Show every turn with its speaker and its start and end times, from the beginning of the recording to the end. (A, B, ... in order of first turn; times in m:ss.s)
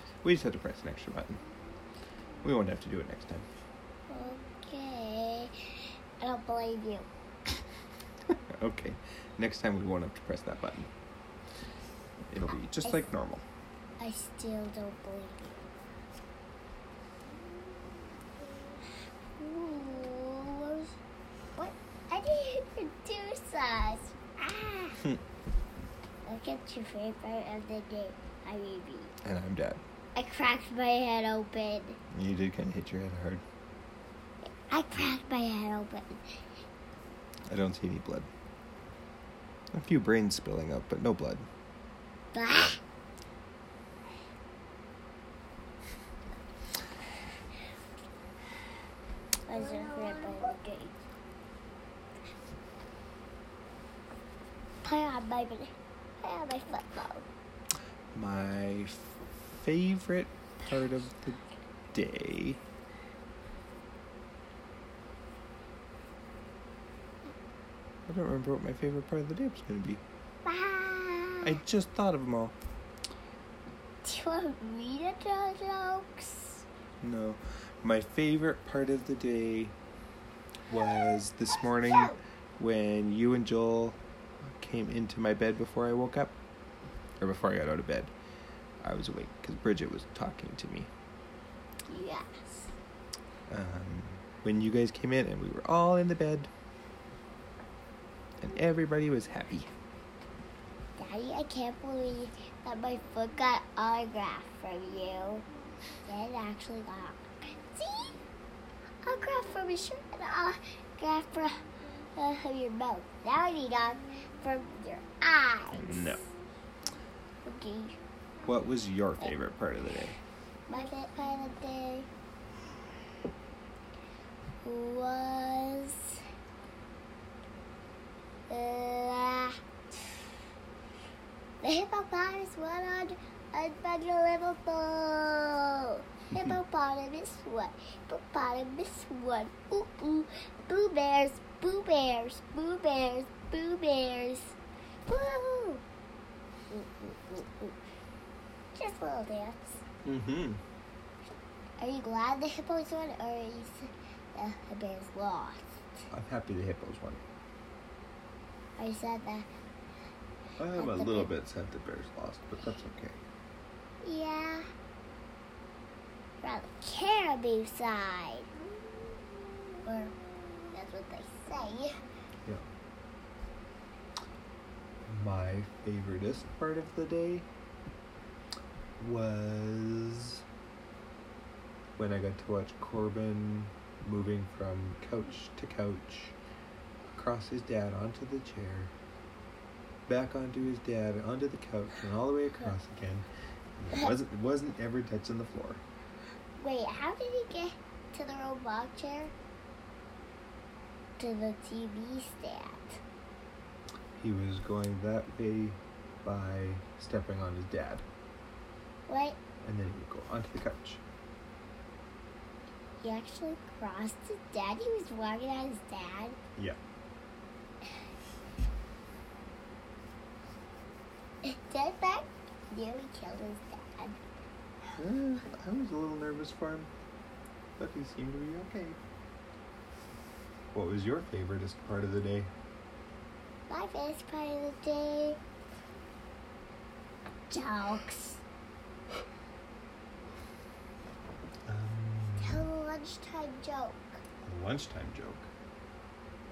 0:00.2-0:01.4 A
0:02.4-0:03.5 A
0:04.1-0:07.1 B
0:08.5-0:10.9 A
0:12.3-0:13.4 A
0:14.0-0:15.6 B
0:19.4-0:20.9 B
0:21.6-0:25.0 B
0:26.2-0:29.1 B
0:29.2-0:29.8 A
0:30.1-0:32.0 B
0:32.1-0:33.4 A
0:34.4-0:36.4 B
0:37.5-0:38.3 A
0:39.7-0:41.5 A
0:42.3-0:42.8 B
0:49.5-0:50.9 B
0:54.8-0:55.7 B
0:56.2-0:57.2 B
0:58.1-1:01.4 A
1:01.9-1:02.6 A
1:08.1-1:10.0 A
1:10.4-1:11.6 B
1:11.4-1:12.5 A
1:14.0-1:16.6 B
1:17.0-1:19.7 A
1:20.7-1:26.3 A
1:20.7-1:22.2 B
1:27.2-1:28.1 A
1:28.8-1:30.9 A
1:31.9-1:32.7 B
1:33.5-1:36.5 A
1:38.4-1:39.7 A
1:41.0-1:45.4 B
1:46.0-1:48.2 B
1:49.0-1:56.2 B
1:55.7-1:56.3 A
1:57.4-1:58.0 B
1:58.4-2:00.2 A
2:00.7-2:02.1 B
2:04.6-2:06.2 B
2:08.5-2:09.6 B
2:11.6-2:25.8 B
2:26.7-2:27.8 B
2:28.7-2:29.8 B
2:30.0-2:30.6 A
2:31.8-2:36.0 B
2:36.1-2:37.2 A
2:38.8-2:39.5 B
2:40.6-2:43.2 A
2:40.7-2:41.3 B
2:44.0-2:44.7 B
2:46.4-2:48.5 B
2:49.8-2:50.2 B
2:50.7-2:51.9 B
2:55.0-2:57.5 A
2:59.0-3:00.4 A
3:02.0-3:06.4 A
3:07.1-3:08.9 A
3:10.1-3:13.3 A
3:13.8-3:15.8 A
3:16.6-3:19.3 B
3:21.2-3:23.0 B
3:24.2-3:28.0 A
3:29.1-3:29.4 B
3:29.6-3:31.0 A
3:33.0-3:36.4 B
3:41.4-3:44.2 B
3:45.0-3:46.9 A
3:47.8-3:49.0 A
3:50.7-3:52.5 A
3:53.7-3:55.4 B
3:57.5-3:58.4 B
4:01.7-4:02.7 A
4:02.4-4:04.2 B
4:04.4-4:05.5 A